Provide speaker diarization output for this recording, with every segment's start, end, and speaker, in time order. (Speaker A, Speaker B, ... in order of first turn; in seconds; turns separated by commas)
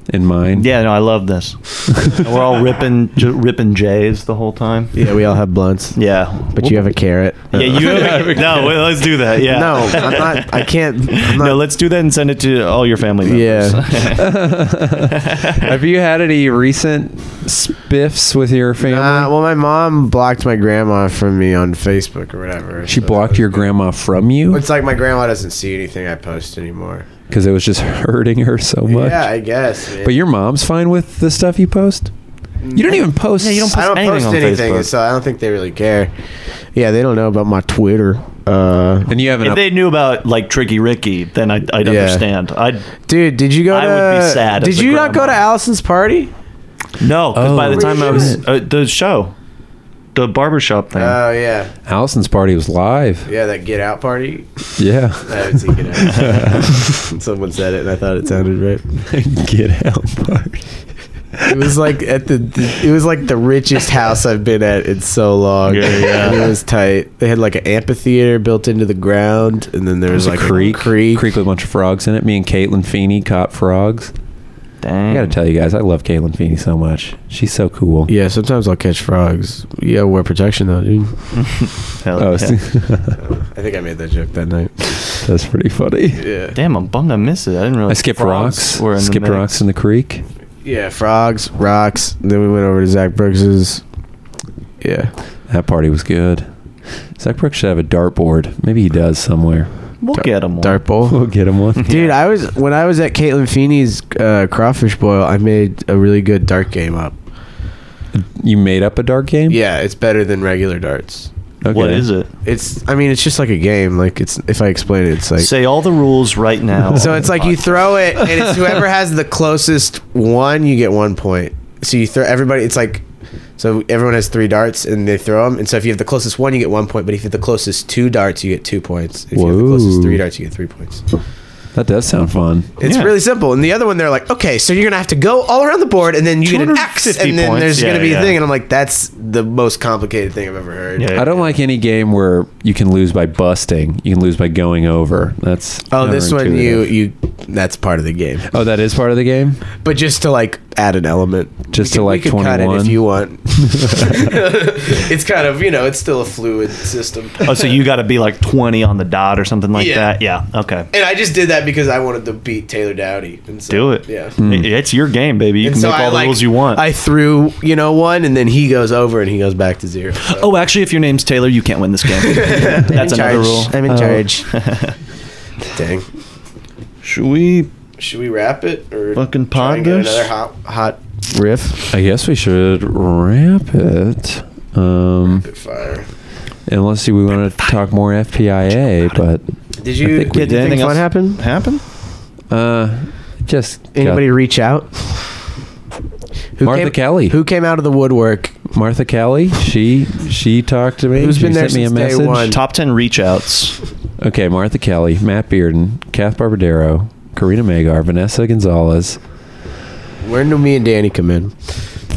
Speaker A: 0.1-0.7, Speaker B: 0.6-5.0, Speaker C: 4.9-8.7, Speaker B: 6.0-6.9, Speaker B: 7.5-15.7, Speaker C: 9.3-11.6, Speaker C: 13.2-14.0, Speaker A: 14.2-19.3, Speaker C: 18.8-23.8, Speaker A: 22.9-24.6, Speaker C: 24.5-27.1, Speaker A: 27.3-29.3, Speaker C: 28.9-30.1, Speaker A: 30.0-32.1, Speaker C: 32.6-33.0, Speaker A: 32.7-33.7, Speaker B: 33.4-34.9, Speaker C: 33.6-36.1, Speaker C: 36.7-39.1, Speaker A: 39.1-39.6, Speaker B: 39.4-42.9, Speaker C: 41.8-42.2, Speaker C: 43.1-46.3, Speaker B: 43.7-45.4, Speaker B: 47.0-49.3, Speaker A: 47.3-48.4, Speaker C: 47.7-48.4, Speaker B: 50.1-51.2, Speaker C: 50.9-51.7, Speaker A: 51.9-53.3, Speaker C: 53.2-54.7, Speaker A: 54.8-56.8, Speaker C: 55.2-58.8, Speaker A: 59.1-60.7, Speaker C: 61.5-71.2, Speaker B: 65.7-66.5, Speaker A: 70.1-74.1, Speaker B: 74.8-75.3, Speaker A: 75.1-78.1, Speaker C: 78.1-81.1, Speaker B: 81.3-82.6, Speaker A: 82.2-83.2, Speaker C: 83.2-85.2, Speaker A: 85.2-86.2, Speaker C: 86.2-86.5, Speaker B: 86.5-89.5, Speaker A: 87.9-90.2, Speaker C: 90.6-93.8, Speaker C: 94.8-95.1, Speaker A: 95.5-96.5, Speaker A: 97.2-99.7, Speaker B: 100.0-100.8, Speaker C: 100.1-101.2, Speaker A: 101.1-102.0, Speaker C: 101.8-107.2, Speaker B: 101.8-102.1, Speaker A: 108.1-109.6, Speaker C: 109.5-111.3, Speaker A: 111.6-112.1, Speaker B: 111.7-112.3, Speaker C: 112.4-115.5, Speaker B: 115.4-118.0, Speaker C: 116.9-123.0, Speaker C: 123.6-131.0, Speaker A: 129.3-130.2, Speaker A: 131.7-132.7, Speaker C: 132.8-141.4, Speaker B: 132.8-133.1, Speaker B: 136.4-138.4, Speaker B: 141.0-141.3, Speaker A: 141.1-146.9, Speaker C: 145.9-148.4, Speaker A: 148.5-149.6, Speaker C: 149.8-157.8, Speaker A: 151.7-153.0, Speaker A: 153.5-154.2, Speaker B: 157.4-160.9, Speaker C: 159.7-160.2, Speaker C: 160.9-164.4, Speaker B: 163.7-166.8, Speaker A: 164.4-164.7, Speaker C: 165.6-170.5, Speaker B: 170.3-174.9, Speaker C: 172.1-174.5, Speaker C: 175.7-176.1, Speaker B: 177.0-177.7, Speaker C: 178.0-181.9, Speaker B: 179.1-180.3, Speaker A: 181.9-185.5, Speaker C: 185.2-186.1, Speaker A: 186.7-189.4, Speaker C: 189.8-191.4, Speaker B: 190.1-191.8, Speaker A: 192.5-194.2, Speaker C: 193.9-195.3, Speaker C: 196.6-198.6, Speaker A: 196.6-197.4, Speaker A: 198.7-202.5, Speaker C: 201.1-202.6, Speaker B: 202.5-203.8, Speaker A: 204.2-209.2, Speaker C: 210.2-211.7